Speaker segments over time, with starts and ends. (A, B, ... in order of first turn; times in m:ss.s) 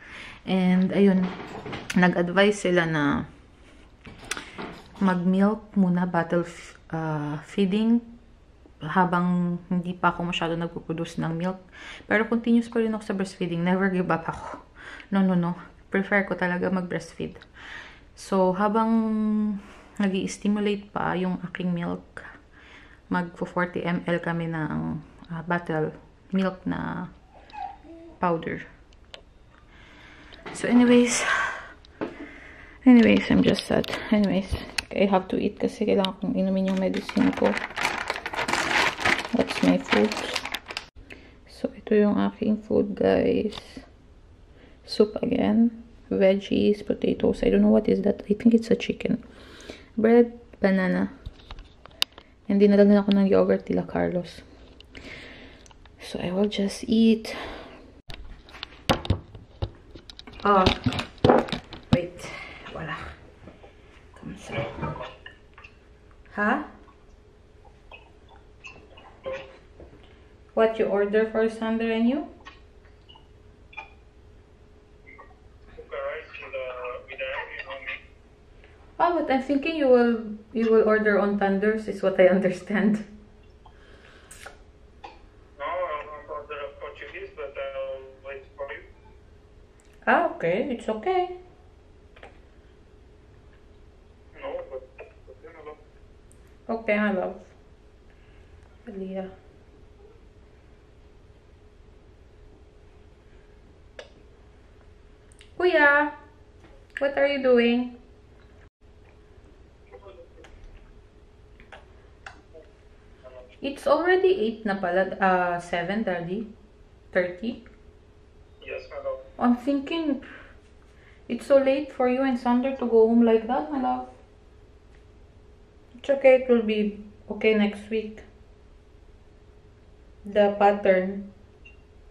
0:00.5-0:01.3 A
0:02.0-0:03.2 A
0:05.0-0:08.0 A
0:08.8-0:14.6 A
0:15.1-0:17.4 A
0:18.2-0:22.2 A
0:23.1-0:27.1 A
0:28.2-0:28.6 A
0:30.5-0:31.6 A
0:32.8-0:37.6 A
0:39.3-0:40.4 A
0:41.5-0:43.8 A
0:44.8-0:49.2 A
0:50.0-0:51.1 A
0:52.5-0:54.4 A
0:56.0-0:57.6 A
1:00.4-1:00.8 A
1:01.9-1:03.2 A
1:04.2-1:04.8 A
1:04.5-1:05.0 B
1:06.3-1:06.7 A
1:10.5-1:12.3 A
1:15.8-1:18.0 B
1:19.0-1:23.0 A
1:25.6-1:28.8 B
1:30.0-1:31.4 A
1:34.3-1:35.8 B
1:36.7-1:37.5 A
1:38.8-1:39.3 A
1:45.6-1:46.1 A
1:47.0-1:48.0 A
1:49.9-1:50.2 B
1:53.6-1:56.5 A
1:57.1-1:57.6 A
1:58.6-1:59.2 B
1:59.4-2:00.3 A
2:01.3-2:04.1 A
2:06.0-2:08.2 A
2:10.2-2:11.3 A